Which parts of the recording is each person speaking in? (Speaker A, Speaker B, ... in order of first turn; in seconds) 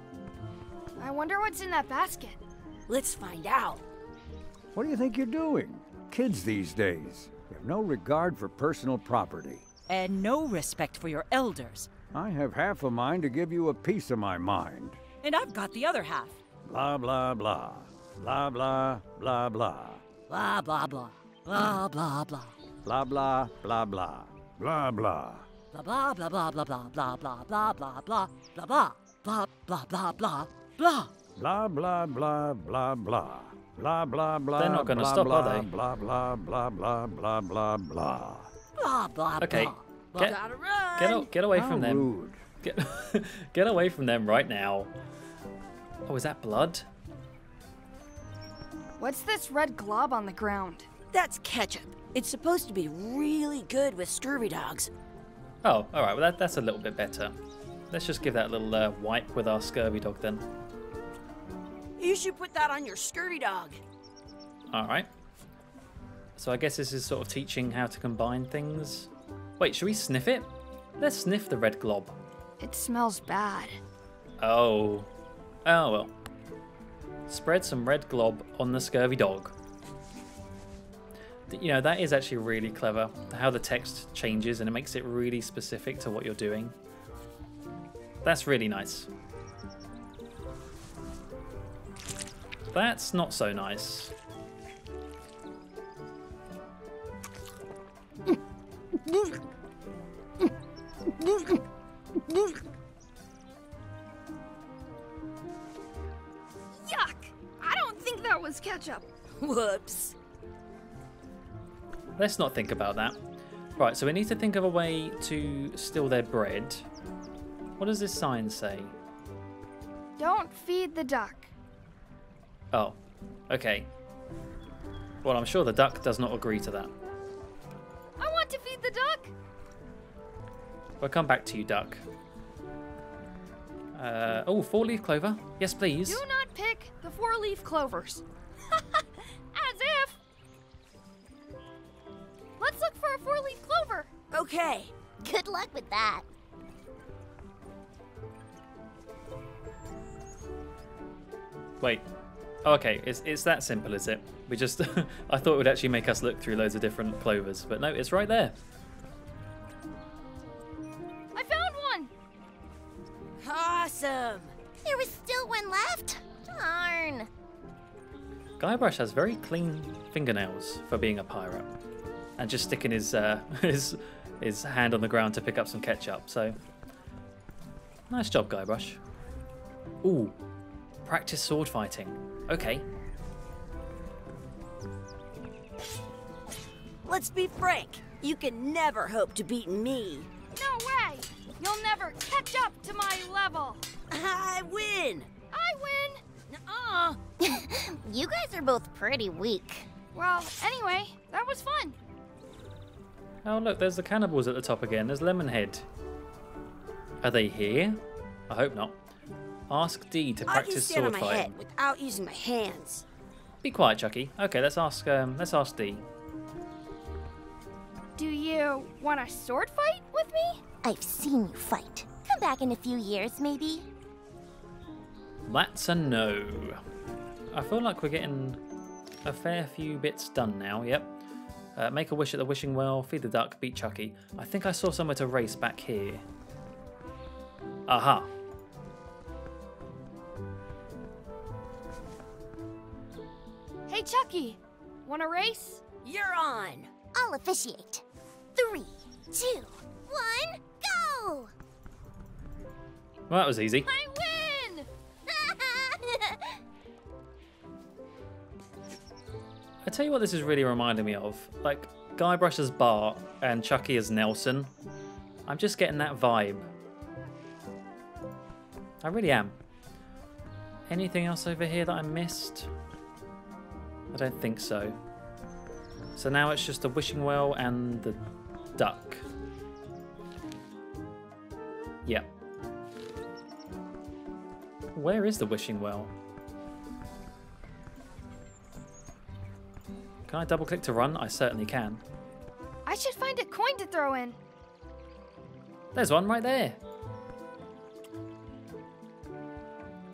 Speaker A: 1.0-2.4, 49.0-50.9, 72.6-73.8, 106.8-109.0, 120.2-121.5, 128.2-129.3, 136.1-138.2, 139.0-140.2, 142.6-144.1, 161.3-162.1, 190.6-193.8, 195.5-196.2, 200.1-202.0, 218.2-220.6, 243.9-245.8, 253.9-254.9, 292.9-294.4
Speaker B: 2.9-3.8, 40.2-41.3, 51.1-54.9, 62.0-63.8, 109.4-110.2, 144.3-144.9, 163.4-164.5, 187.1-190.3, 194.1-195.3, 196.5-197.2, 210.5-213.0, 246.0-246.9
Speaker C: 4.7-9.7, 12.1-15.0, 16.7-20.0, 22.8-25.5, 31.4-38.5, 41.5-42.4
Speaker D: 9.9-11.9, 15.2-16.4, 20.3-22.6, 25.7-31.1, 38.8-40.4
Speaker E: 34.6-35.7, 39.4-40.4, 41.0-42.1, 42.6-44.9, 46.1-46.9, 55.6-57.4, 57.9-60.5, 64.7-65.1, 66.4-72.2, 74.4-75.1, 75.7-76.1, 77.3-79.5, 81.5-86.7, 88.2-89.1, 92.7-94.1, 112.2-113.2, 113.8-116.9, 117.8-119.0, 122.7-123.0, 123.5-123.9, 125.2-126.9, 131.0-132.0, 133.9-136.2, 151.8-152.1, 152.7-158.6, 168.6-171.7, 172.4-176.6, 178.1-179.0, 180.0-180.4, 181.1-182.8, 203.4-205.9, 207.2-209.0, 209.7-211.5, 213.6-216.1, 225.5-226.8, 227.5-228.6, 229.2-231.2, 231.8-236.2, 237.9-238.3, 253.3-253.9, 259.8-264.7, 265.5-266.7, 269.0-269.6, 270.9-272.7, 274.1-275.0, 276.2-278.2, 278.8-279.2, 284.9-286.1, 290.3-292.0, 295.9-296.8
Speaker F: 145.2-146.2, 164.8-167.3, 197.4-199.9, 220.8-223.9, 247.1-248.0, 248.6-251.5, 255.3-256.4